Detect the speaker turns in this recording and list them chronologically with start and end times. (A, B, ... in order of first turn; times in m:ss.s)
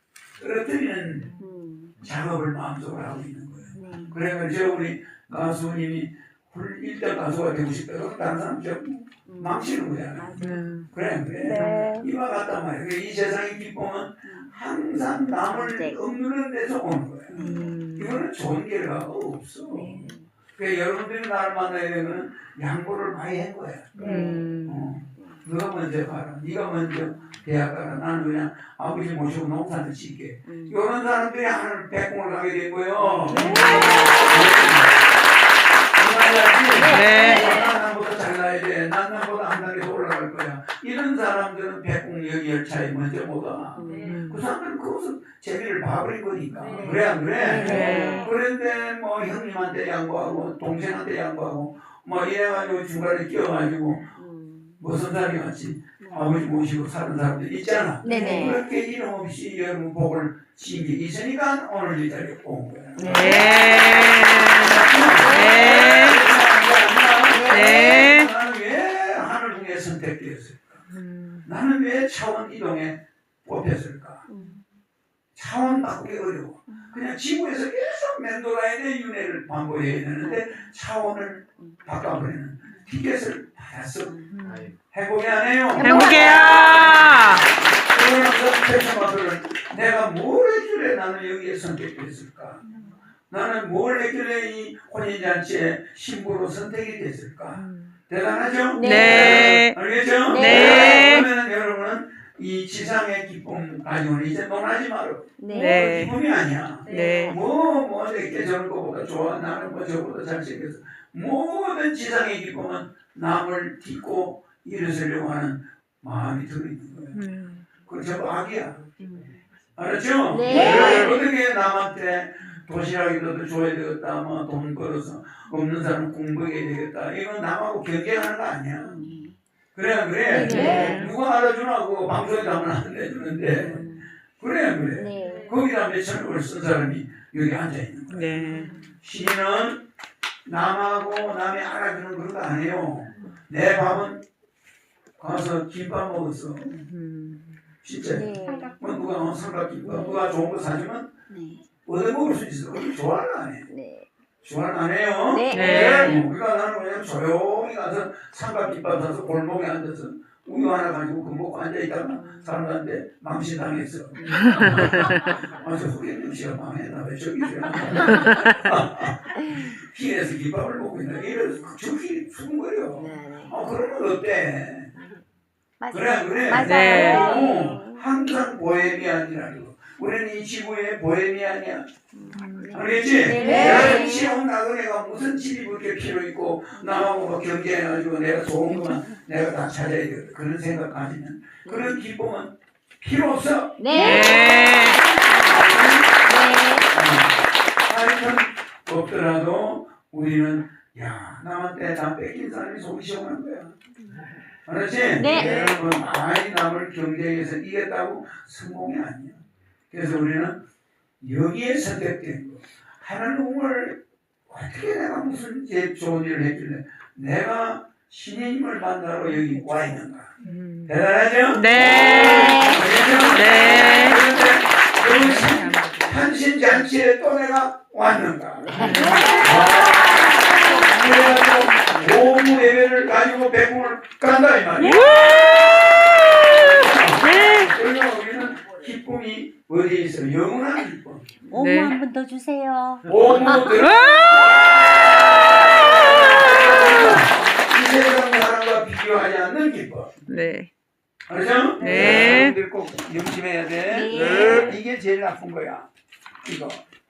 0:00.4-0:01.4 A
0:01.4-0:02.0 B
0:02.0-0:35.1 A
0:03.7-0:04.2 B
0:09.3-0:10.6 B
0:10.4-0:12.0 C
0:11.4-0:12.1 B
0:15.4-0:16.0 B
0:17.3-0:17.8 B
0:17.4-0:18.2 C
0:19.7-0:20.3 B
0:24.0-0:24.5 B
0:24.0-0:24.9 C
0:30.5-0:30.8 B
0:33.0-0:34.6 B
0:33.3-0:34.0 C
0:36.0-0:54.2 A
0:36.7-0:37.7 B
0:36.9-0:37.4 C
0:43.8-0:44.2 B
0:43.9-0:44.4 C
0:46.6-0:48.3 B
0:47.6-0:48.3 C
0:54.1-0:54.8 B
0:54.8-1:10.8 A
0:56.0-0:56.4 B
0:58.0-0:58.7 B
1:03.0-1:03.6 B
1:03.0-1:04.8 C
1:05.1-1:05.8 B
1:05.4-1:06.1 C
1:07.3-1:08.0 B
1:07.5-1:08.3 C
1:10.9-1:11.5 C
1:11.4-1:14.3 A
1:14.3-1:14.6 B
1:15.4-1:24.2 A
1:20.2-1:20.7 B
1:24.0-1:24.4 B
1:24.3-1:24.7 C
1:24.9-1:32.6 A
1:25.8-1:27.7 B
1:25.8-1:27.4 C
1:33.3-1:57.2 A
1:37.6-1:37.9 C
1:38.7-1:39.5 B
1:38.8-1:39.8 C
1:40.3-1:41.2 B
1:40.4-1:41.3 C
1:45.4-1:45.9 B
1:45.5-1:46.1 C
1:46.9-1:47.4 C
1:46.9-1:47.4 B
1:57.1-1:57.7 C
1:57.9-1:58.8 A
1:59.0-1:59.4 B
1:59.8-2:09.0 A
2:00.3-2:01.2 B
2:08.8-2:09.4 B
2:09.8-2:13.8 A
2:10.3-2:11.1 B
2:10.4-2:11.1 C
2:13.5-2:14.1 B
2:14.4-2:19.8 A
2:14.9-2:15.6 B
2:18.1-2:18.8 C
2:20.5-2:24.2 A
2:25.2-2:26.8 A
2:26.8-2:27.6 C
2:27.8-2:31.1 A
2:28.1-2:28.8 B
2:29.8-2:30.3 B
2:31.3-2:31.6 B
2:31.8-2:33.7 A
2:33.7-2:34.1 B
2:34.4-2:54.9 A
2:35.3-2:36.2 B
2:35.5-2:36.3 C
2:42.1-2:42.5 B
2:44.2-2:45.1 B
2:52.9-2:53.6 B
2:55.8-2:58.3 B
2:55.9-3:01.9 A
2:56.6-2:57.3 C
3:02.1-3:04.4 B
3:02.3-3:02.8 C
3:02.7-3:16.2 A
3:06.8-3:07.0 B
3:08.7-3:09.1 B
3:11.6-3:12.0 B
3:13.8-3:16.9 B
3:13.9-3:15.0 C
3:16.9-3:23.8 A
3:24.7-3:30.6 A
3:25.2-3:25.8 B
3:31.2-3:40.3 A
3:40.4-3:44.2 C
3:40.9-3:55.4 A
3:42.0-3:43.2 B
3:45.0-3:46.3 C
3:48.6-3:52.2 B
3:48.7-3:49.4 C
3:54.9-3:55.3 C
3:56.5-4:01.4 A
3:57.3-3:57.7 C
4:01.5-4:03.6 B
4:01.5-4:02.0 C
4:03.0-4:04.5 A
4:03.9-4:04.2 C
4:06.5-4:10.1 A
4:10.3-4:10.7 C
4:11.3-4:15.9 A
4:11.8-4:12.6 C
4:13.9-4:14.8 B
4:16.4-4:16.8 A